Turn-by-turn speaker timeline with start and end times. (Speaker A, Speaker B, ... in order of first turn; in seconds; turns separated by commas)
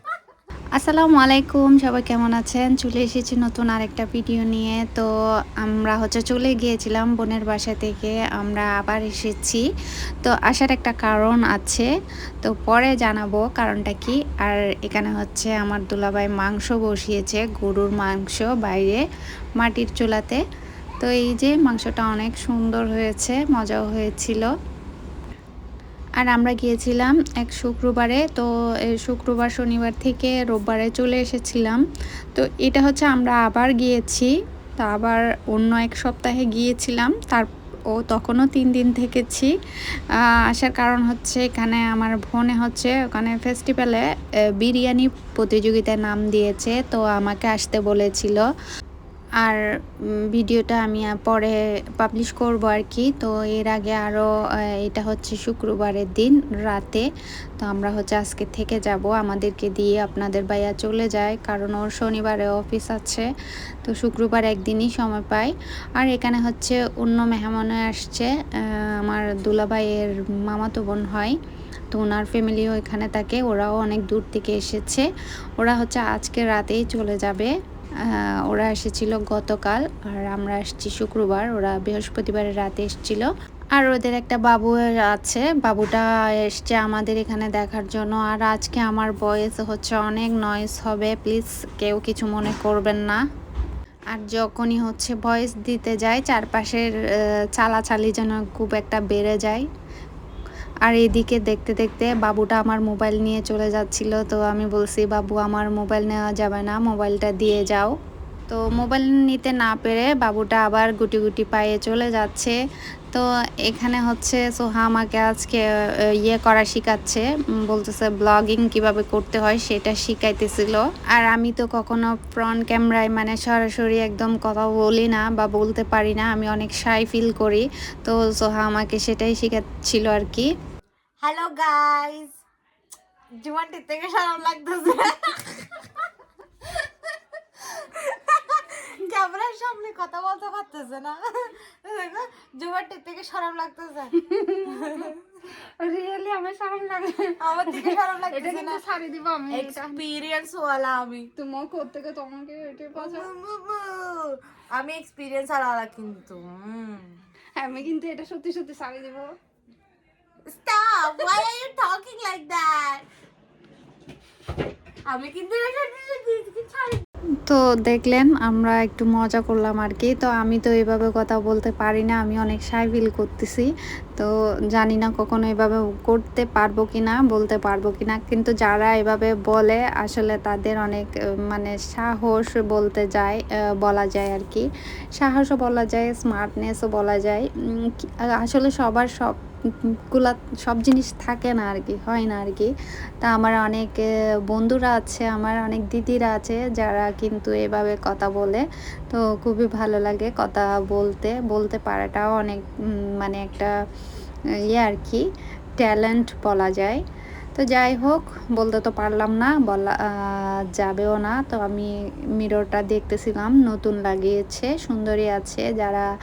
Speaker A: 0.8-5.1, Speaker A: 5.6-9.7, Speaker A: 10.2-11.9, Speaker A: 12.4-19.0, Speaker A: 19.6-20.4, Speaker A: 21.0-24.5, Speaker A: 26.2-31.8, Speaker A: 32.3-39.5, Speaker A: 40.5-44.0, Speaker A: 44.6-48.5, Speaker A: 50.3-54.2, Speaker A: 54.8-57.1, Speaker A: 57.6-63.3, Speaker A: 63.8-71.3, Speaker A: 71.9-75.1, Speaker A: 75.6-77.5, Speaker A: 78.0-93.2, Speaker A: 94.1-96.9, Speaker A: 97.6-99.7, Speaker A: 100.8-107.9, Speaker A: 108.5-112.5, Speaker A: 113.1-115.6, Speaker A: 116.2-130.5, Speaker B: 131.2-132.3, Speaker B: 133.4-135.3, Speaker B: 138.1-138.3, Speaker B: 139.1-141.2, Speaker B: 141.8-144.1, Speaker C: 144.3-144.8, Speaker C: 145.8-150.1, Speaker B: 147.4-148.8, Speaker B: 149.5-150.2, Speaker C: 151.3-153.3, Speaker B: 152.9-157.1, Speaker C: 157.6-159.3, Speaker B: 160.6-163.0, Speaker B: 165.1-167.0, Speaker A: 167.5-189.3, Speaker A: 190.1-192.7, Speaker A: 193.2-203.7, Speaker A: 204.7-205.2, Speaker A: 205.8-207.0, Speaker A: 207.5-216.1